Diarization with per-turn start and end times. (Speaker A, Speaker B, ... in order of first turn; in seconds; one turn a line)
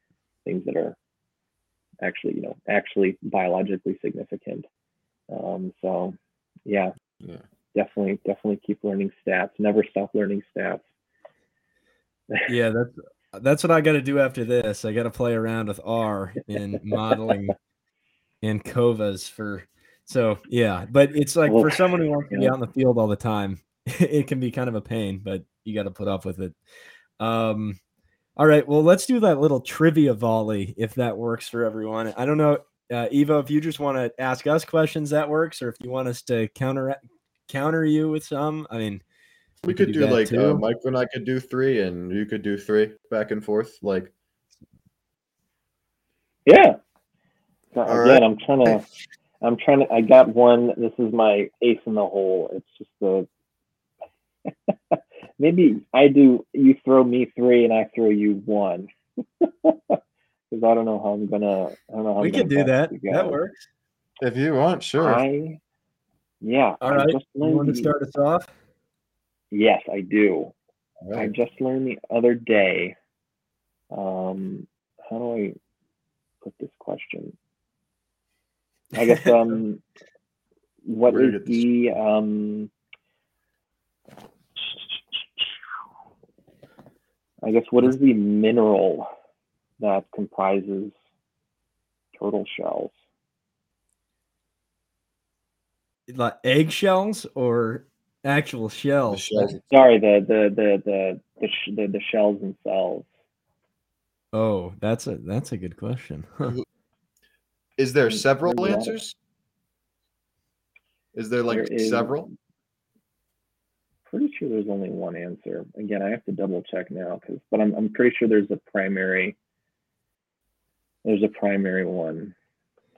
Speaker A: 0.5-1.0
Speaker A: 2.0-4.7
Speaker A: 5.3-6.9
Speaker A: 7.7-10.8
Speaker B: 12.5-17.5
Speaker B: 18.4-26.6
Speaker A: 21.5-22.5
Speaker B: 27.2-27.8
Speaker B: 28.4-39.0
Speaker B: 39.6-40.6
Speaker C: 39.7-44.1
Speaker A: 46.5-46.8
Speaker A: 47.8-48.8
Speaker C: 47.9-48.8
Speaker A: 49.4-53.3
Speaker A: 54.5-58.9
Speaker A: 59.4-60.0
Speaker A: 60.5-63.4
Speaker B: 62.2-63.5
Speaker C: 64.2-65.2
Speaker A: 65.0-65.6
Speaker A: 66.4-67.9
Speaker B: 66.8-68.5
Speaker A: 69.5-70.5
Speaker C: 71.0-71.3
Speaker A: 71.1-73.0
Speaker A: 73.9-75.6
Speaker A: 76.4-77.3
Speaker A: 78.9-79.8
Speaker A: 80.8-82.7
Speaker C: 81.1-81.7
Speaker A: 87.4-89.1
Speaker A: 89.8-90.9
Speaker A: 92.1-92.9
Speaker B: 96.1-99.5
Speaker C: 99.1-99.6
Speaker A: 99.7-103.1
Speaker B: 104.3-106.5
Speaker C: 107.8-109.2
Speaker A: 108.1-109.0
Speaker C: 111.2-112.3
Speaker A: 111.5-112.3
Speaker A: 114.1-119.4
Speaker A: 121.0-122.3